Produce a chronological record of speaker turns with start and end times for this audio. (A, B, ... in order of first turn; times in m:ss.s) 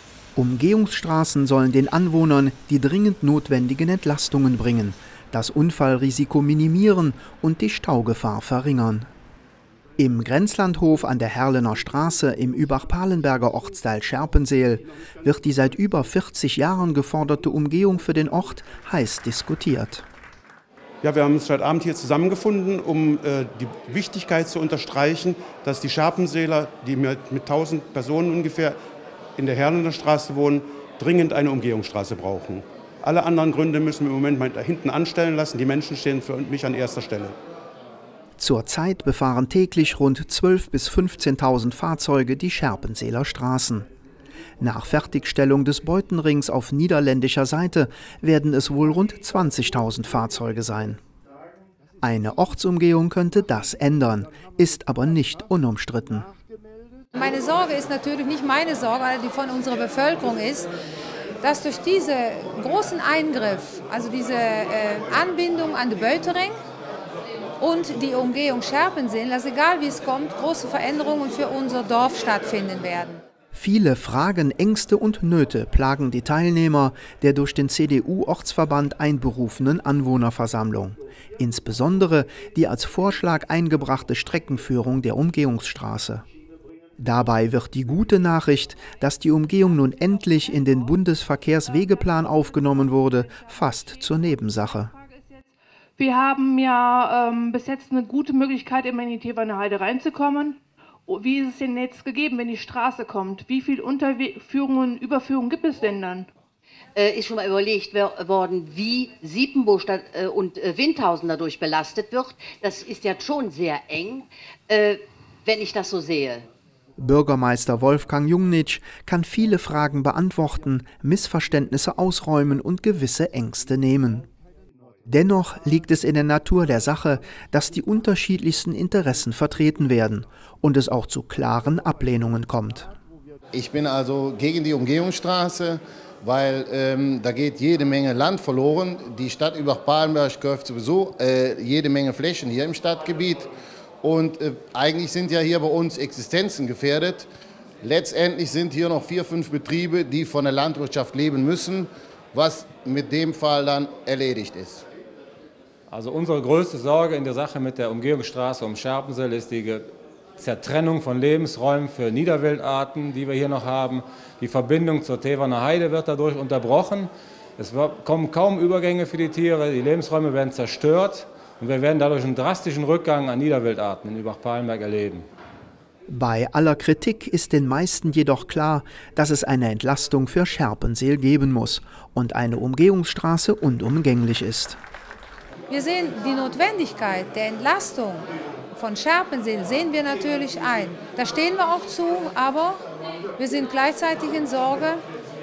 0:00.3-0:09.1 A
0:10.0-0:20.0 A
0:21.0-0:28.8 B
0:29.4-0:37.4 B
0:38.4-0:43.9 A
0:44.6-0:51.0 A
0:52.0-0:56.3 A
0:57.1-1:00.7 C
1:01.4-1:06.5 C
1:07.6-1:13.2 C
1:13.5-1:26.2 A
1:27.0-1:34.9 A
1:32.8-1:46.3 D
1:46.9-1:56.5 E
1:57.0-2:04.3 A
2:05.0-2:12.9 A
2:13.5-2:23.5 F
2:24.0-2:27.3 F
2:27.8-2:34.8 F
2:35.9-2:39.9 G
2:40.4-2:55.2 G
2:56.1-3:04.8 A
3:05.7-3:12.8 C
3:13.4-3:15.0 C